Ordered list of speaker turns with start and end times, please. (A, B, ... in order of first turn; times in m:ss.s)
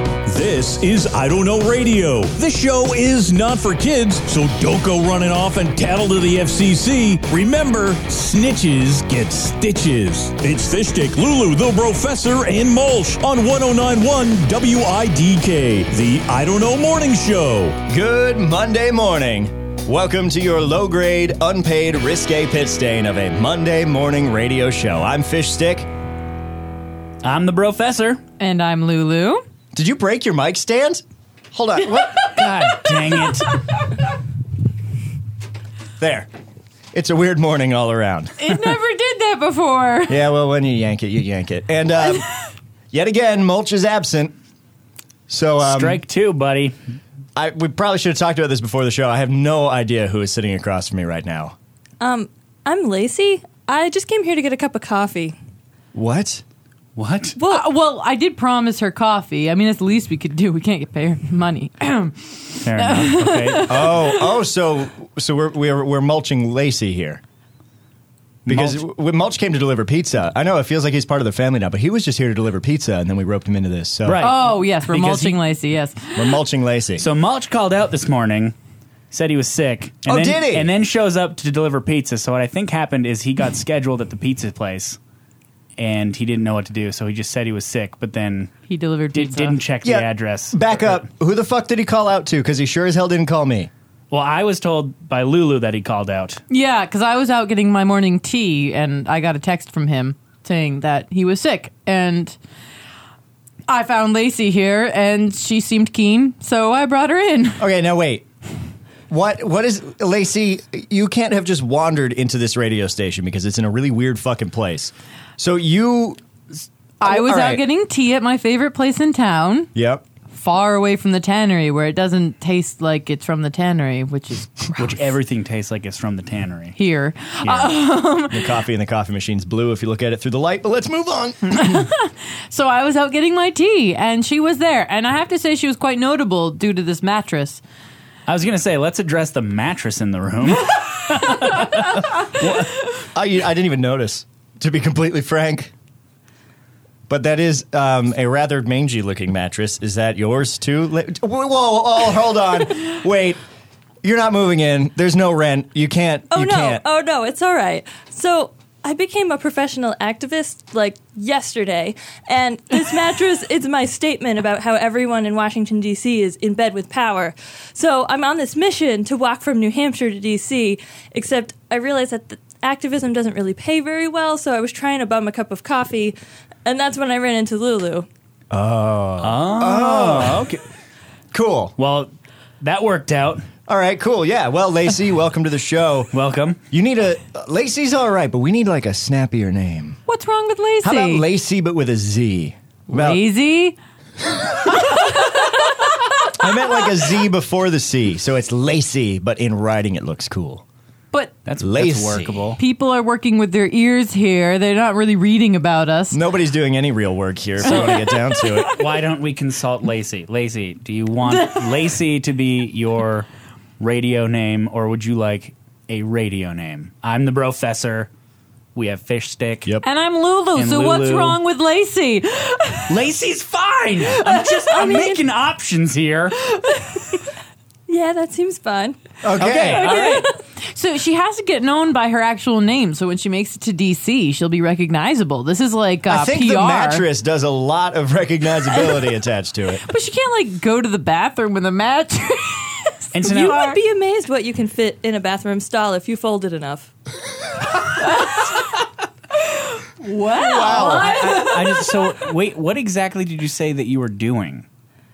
0:00.3-0:17.8 A
0:17.9-0:25.9 B
0:27.2-0:28.2 C
0:28.4-0:29.4 D
0:29.7-0:32.7 B
0:32.3-0:33.5 C
0:36.0-0:36.3 B
0:36.9-0:38.3 B
0:38.4-0:40.2 D
0:40.1-0:42.2 B
0:42.9-0:44.4 B
0:45.3-0:46.0 B
0:45.6-0:46.7 C
0:47.4-0:51.6 B
0:52.0-0:55.3 E
0:55.9-0:56.4 B
0:57.0-0:57.4 C
0:57.4-0:57.6 E
0:57.5-1:04.2 D
1:02.6-1:03.8 C
1:03.6-1:07.2 B
1:08.4-1:14.2 B
1:08.5-1:08.8 C
1:14.0-1:15.4 C
1:14.2-1:16.3 D
1:16.1-1:17.0 B
1:17.0-1:18.5 C
1:19.1-1:25.0 C
1:20.0-1:20.7 B
1:25.8-1:28.5 C
1:28.7-1:29.6 D
1:29.1-1:31.0 C
1:29.8-1:33.7 B
1:34.1-1:36.4 C
1:36.5-1:42.4 D
1:43.7-1:47.6 D
1:47.6-1:48.2 B
1:49.1-1:56.2 B
1:57.0-1:59.7 D
1:57.0-1:57.6 B
1:59.7-2:00.0 B
2:00.3-2:04.5 D
2:04.8-2:06.8 C
2:06.8-2:08.4 D
2:07.4-2:07.7 C
2:08.3-2:11.8 B
2:11.6-2:17.6 D
2:18.3-2:22.6 C
2:22.4-2:25.7 B
2:27.1-2:33.4 B
2:34.0-2:36.8 B
2:36.3-2:58.1 E
2:58.5-3:00.5 B
2:59.2-3:00.6 C
3:01.3-3:01.7 B
3:01.8-3:02.1 C
3:02.6-3:03.4 C
3:03.7-3:06.1 B
3:06.1-3:06.6 C
3:06.7-3:10.0 B
3:10.1-3:11.2 D
3:10.8-3:13.2 B
3:12.9-3:13.8 D
3:15.0-3:15.5 D
3:16.3-3:20.6 B
3:21.4-3:22.6 C
3:21.6-3:22.5 B
3:22.6-3:26.2 D
3:26.1-3:28.7 B
3:28.7-3:33.3 C
3:31.3-3:31.7 D
3:33.8-3:38.1 C
3:38.7-3:39.7 C
3:39.8-3:43.0 D
3:40.5-3:41.4 C
3:42.9-3:46.4 C
3:44.1-3:44.4 D
3:44.7-3:45.2 E
3:47.9-3:49.0 E
3:49.2-3:49.9 B
3:49.4-3:50.3 C
3:49.8-3:57.0 D
3:50.0-3:50.2 E
3:56.1-3:59.8 B
3:59.9-4:03.8 D
4:03.1-4:03.6 C
4:03.2-4:06.9 E
4:09.8-4:12.2 D
4:10.4-4:11.4 B
4:10.6-4:14.6 C